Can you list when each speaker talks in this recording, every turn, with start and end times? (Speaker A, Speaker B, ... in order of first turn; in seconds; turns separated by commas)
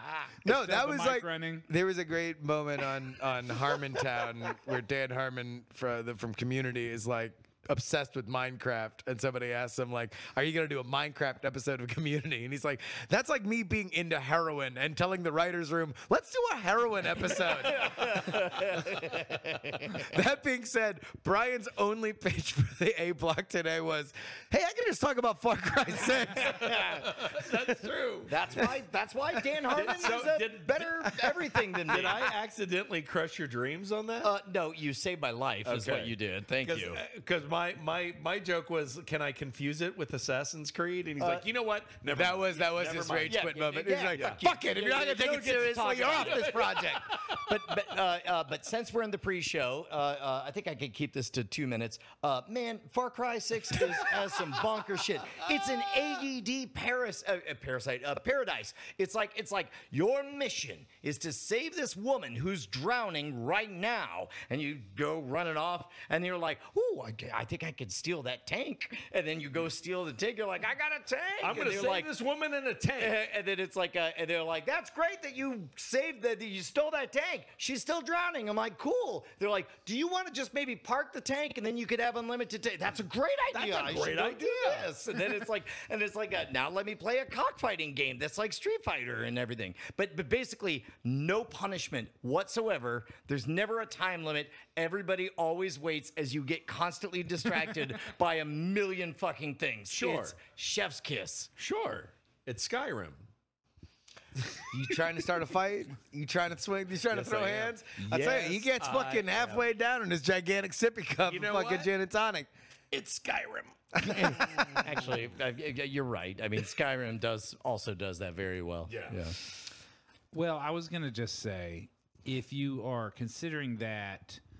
Speaker A: 0.4-19.2, Speaker B: 0.5-1.6, Speaker C: 17.4-20.1, Speaker A: 19.9-27.3, Speaker C: 26.3-27.1, Speaker D: 26.9-28.3, Speaker C: 28.3-32.3, Speaker D: 29.7-31.1, Speaker D: 31.9-34.3, Speaker C: 34.2-37.0, Speaker D: 35.6-43.4, Speaker C: 41.2-41.4, Speaker A: 42.1-47.0, Speaker C: 43.3-72.1, Speaker D: 44.1-44.4, Speaker D: 46.2-47.4, Speaker D: 71.4-73.2, Speaker C: 73.0-101.5, Speaker D: 83.5-84.9, Speaker D: 99.9-100.3, Speaker D: 101.6-103.2, Speaker A: 104.7-112.5, Speaker D: 107.1-109.7, Speaker D: 111.2-111.9, Speaker D: 112.9-114.7, Speaker C: 114.0-119.4, Speaker D: 118.9-119.2, Speaker B: 120.3-124.4